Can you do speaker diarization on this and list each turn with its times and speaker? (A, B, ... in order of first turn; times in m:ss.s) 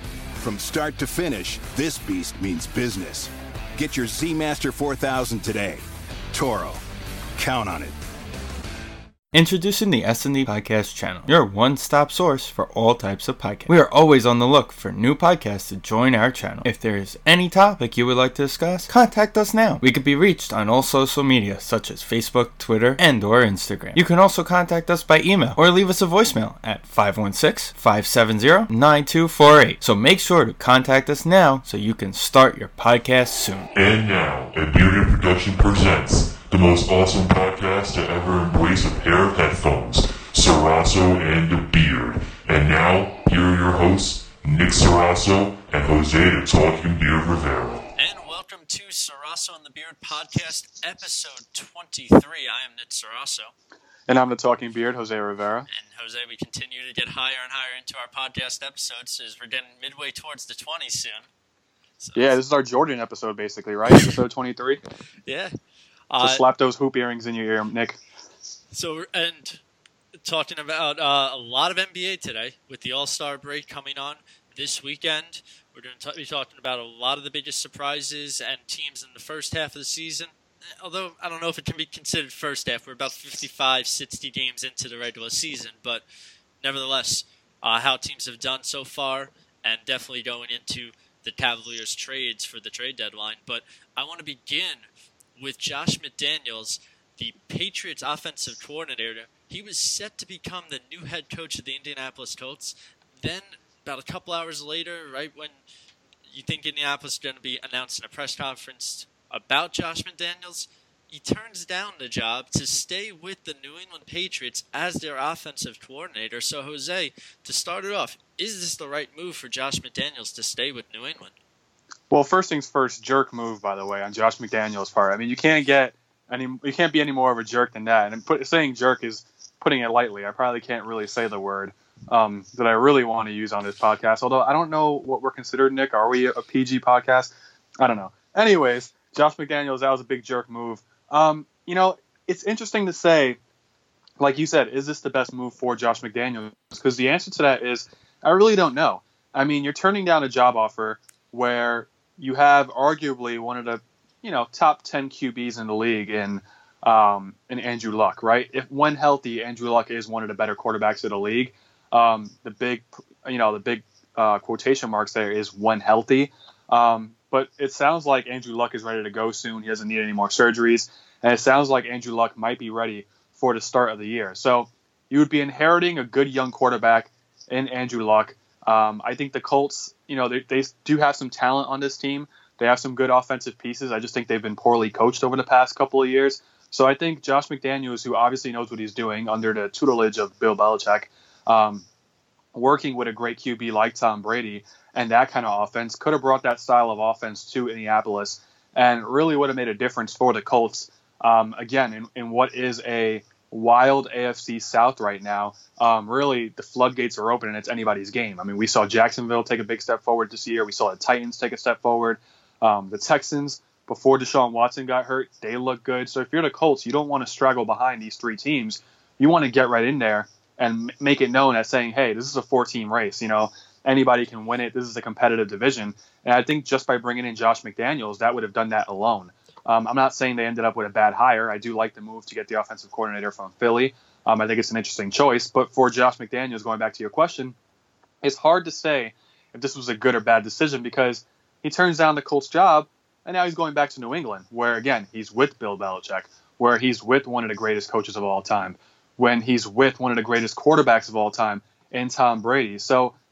0:00.4-0:06.8 A
0:07.4-0:07.9 A
0:09.3-0:33.7 B
0:33.7-0:47.8 C
0:48.0-0:53.5 D
0:54.1-0:55.7 E
0:55.7-1:01.3 D
1:02.0-1:02.4 D
1:02.2-1:04.8 E
1:03.9-1:04.1 D
1:05.2-1:05.5 D
1:06.1-1:06.4 D
1:06.2-1:08.0 E
1:08.7-1:09.6 D
1:10.2-1:26.0 D
1:26.6-1:45.6 D
1:46.2-2:01.3 D
2:02.1-2:23.4 E
2:24.2-3:11.8 E
3:12.5-3:57.5 E
3:58.2-4:13.1 E